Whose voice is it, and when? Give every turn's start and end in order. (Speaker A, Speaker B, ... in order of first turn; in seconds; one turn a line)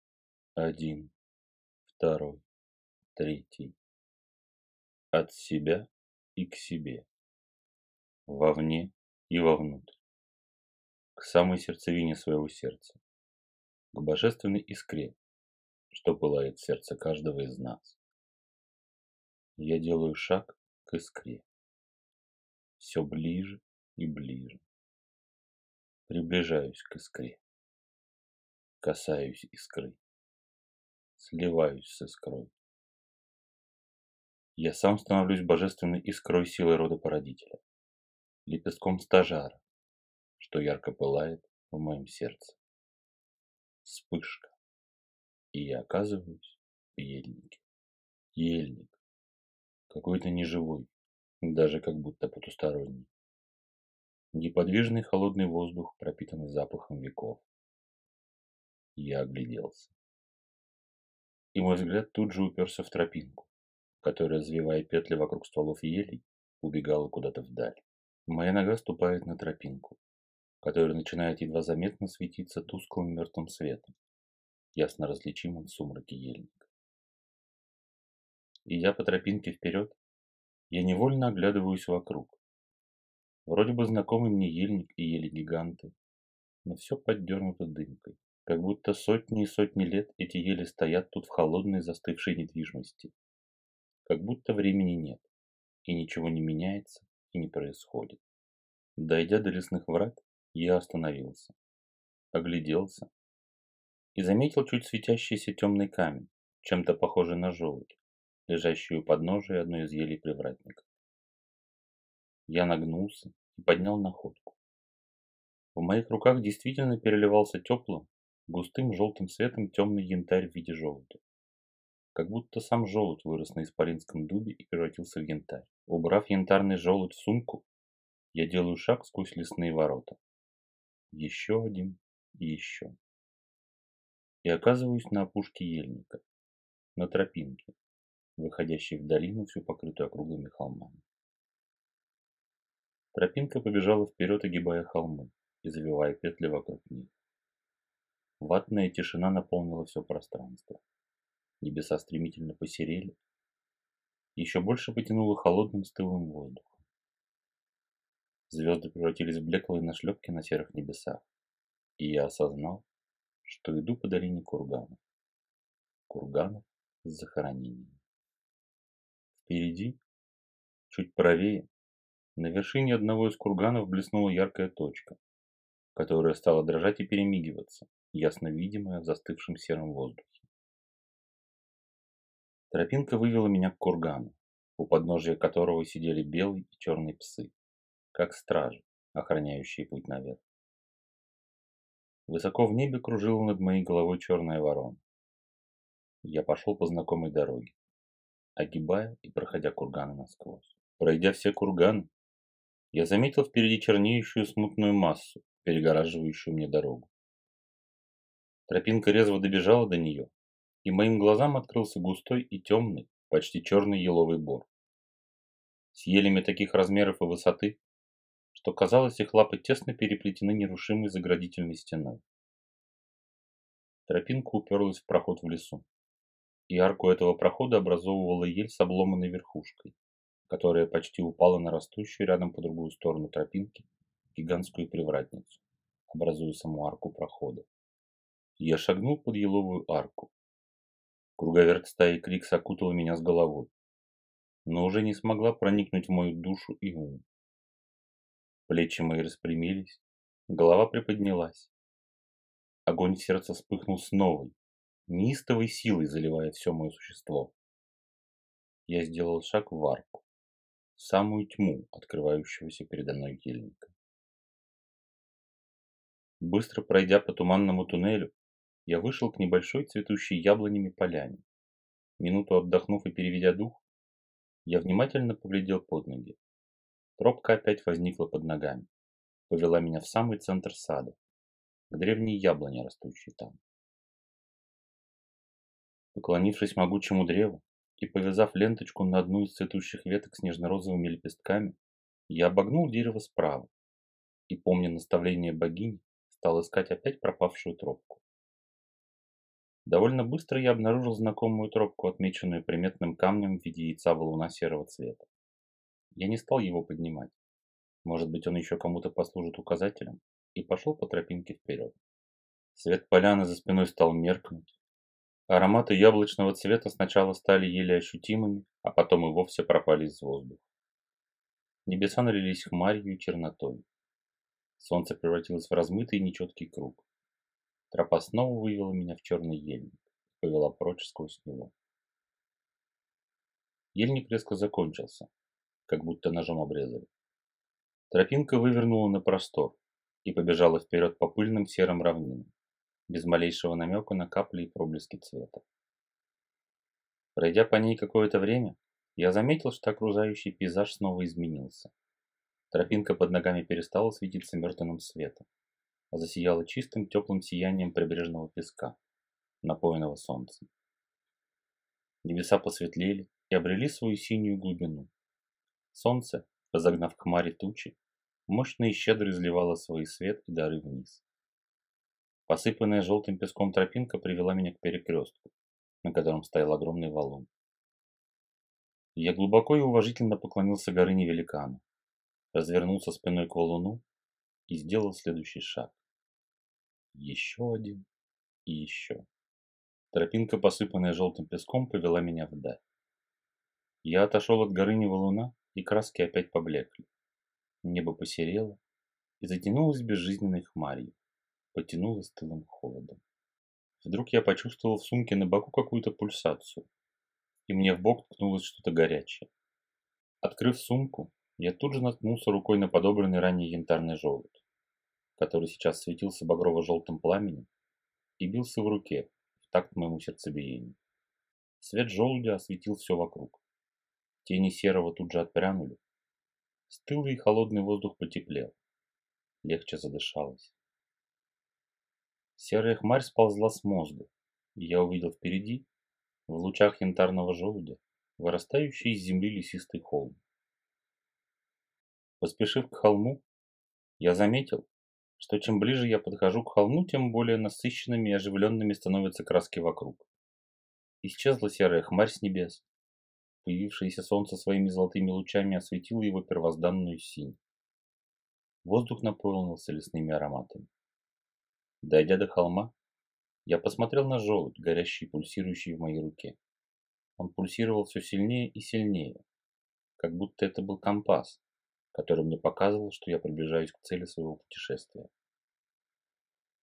Speaker A: 0.6-1.1
Speaker A: 1.9-2.4
Speaker A: 3.1-3.8
Speaker A: 5.1-7.1
Speaker A: 8.3-10.0
Speaker A: 11.2-13.0
Speaker A: 13.9-15.2
Speaker A: 15.9-18.0
Speaker A: 19.6-21.4
Speaker A: 22.8-24.6
Speaker A: 26.1-27.4
Speaker A: 28.8-30.0
Speaker A: 31.2-32.5
Speaker A: 34.6-37.6
Speaker A: 38.5-39.6
Speaker A: 40.4-42.6
Speaker A: 43.8-44.6
Speaker A: 45.5-47.6
Speaker A: 48.4-49.0
Speaker A: 49.9-50.9
Speaker A: 51.4-53.1
Speaker A: 54.3-57.5
Speaker A: 59.0-59.9
Speaker A: 61.5-63.5
Speaker A: 64.0-70.0
Speaker A: 70.6-73.9
Speaker A: 74.8-76.7
Speaker A: 78.7-80.0
Speaker A: 80.7-82.4
Speaker A: 83.5-85.9
Speaker A: 86.7-93.1
Speaker A: 94.0-95.3
Speaker A: 95.8-98.2
Speaker A: 99.0-101.5
Speaker A: 102.3-103.1
Speaker A: 104.2-110.9
Speaker A: 112.5-114.6
Speaker A: 115.8-121.2
Speaker A: 122.2-127.7
Speaker A: 128.3-130.2
Speaker A: 131.1-132.9
Speaker A: 134.4-136.2
Speaker A: 137.0-137.7
Speaker A: 138.4-141.0
Speaker A: 143.1-147.1
Speaker A: 148.4-150.8
Speaker A: 151.6-153.2
Speaker A: 154.4-156.8
Speaker A: 158.5-161.2
Speaker A: 162.0-162.8
Speaker A: 163.4-165.0
Speaker A: 166.1-168.0
Speaker A: 169.4-170.0
Speaker A: 170.9-171.7
Speaker A: 172.4-175.2
Speaker A: 175.9-180.5
Speaker A: 182.7-187.5
Speaker A: 188.1-190.4
Speaker A: 192.3-195.0
Speaker A: 196.2-197.8
Speaker A: 198.6-202.1
Speaker A: 202.9-207.1
Speaker A: 208.7-210.3
Speaker A: 210.8-214.7
Speaker A: 215.9-217.8
Speaker A: 218.5-222.2
Speaker A: 224.1-225.9
Speaker A: 226.7-229.9
Speaker A: 230.5-237.7
Speaker A: 238.6-240.3
Speaker A: 241.4-243.7
Speaker A: 244.7-247.2
Speaker A: 248.7-251.7
Speaker A: 252.9-254.6
Speaker A: 255.1-257.5
Speaker A: 258.9-260.2
Speaker A: 261.0-263.9
Speaker A: 266.4-268.3
Speaker A: 268.9-271.4
Speaker A: 272.2-273.8
Speaker A: 274.7-276.4
Speaker A: 277.2-278.9
Speaker A: 279.5-281.2
Speaker A: 281.9-283.6
Speaker A: 286.1-291.8
Speaker A: 292.3-293.7
Speaker A: 294.5-298.2
Speaker A: 299.9-305.3
Speaker A: 306.1-307.4
Speaker A: 308.1-311.9
Speaker A: 312.7-314.8
Speaker A: 315.5-320.6
Speaker A: 321.9-323.8
Speaker A: 324.8-327.0
Speaker A: 327.9-331.7
Speaker A: 333.9-335.3
Speaker A: 335.9-337.1
Speaker A: 338.1-342.5
Speaker A: 343.1-345.6
Speaker A: 347.4-351.9
Speaker A: 352.7-355.5
Speaker A: 356.1-359.0
Speaker A: 359.6-360.7
Speaker A: 362.2-365.1
Speaker A: 365.9-368.0
Speaker A: 368.5-371.2
Speaker A: 372.5-375.5
Speaker A: 376.0-377.5
Speaker A: 379.2-381.8
Speaker A: 382.5-384.0
Speaker A: 384.7-386.0
Speaker A: 387.1-388.1
Speaker A: 388.7-389.2
Speaker A: 390.1-392.8
Speaker A: 394.0-397.1
Speaker A: 397.8-398.8
Speaker A: 399.4-401.2
Speaker A: 401.7-403.2
Speaker A: 404.0-406.9
Speaker A: 407.7-409.5
Speaker A: 410.4-414.6
Speaker A: 415.4-417.7
Speaker A: 418.4-421.0
Speaker A: 421.8-423.6
Speaker A: 424.4-426.0
Speaker A: 426.9-428.8
Speaker A: 429.6-430.8
Speaker A: 432.6-435.9
Speaker A: 436.5-440.4
Speaker A: 442.4-443.4
Speaker A: 444.2-444.9
Speaker A: 445.4-450.3
Speaker A: 451.2-452.9
Speaker A: 453.6-457.6
Speaker A: 458.8-460.9
Speaker A: 462.0-462.9
Speaker A: 463.7-466.6
Speaker A: 467.4-469.4
Speaker A: 470.2-471.6
Speaker A: 472.1-475.3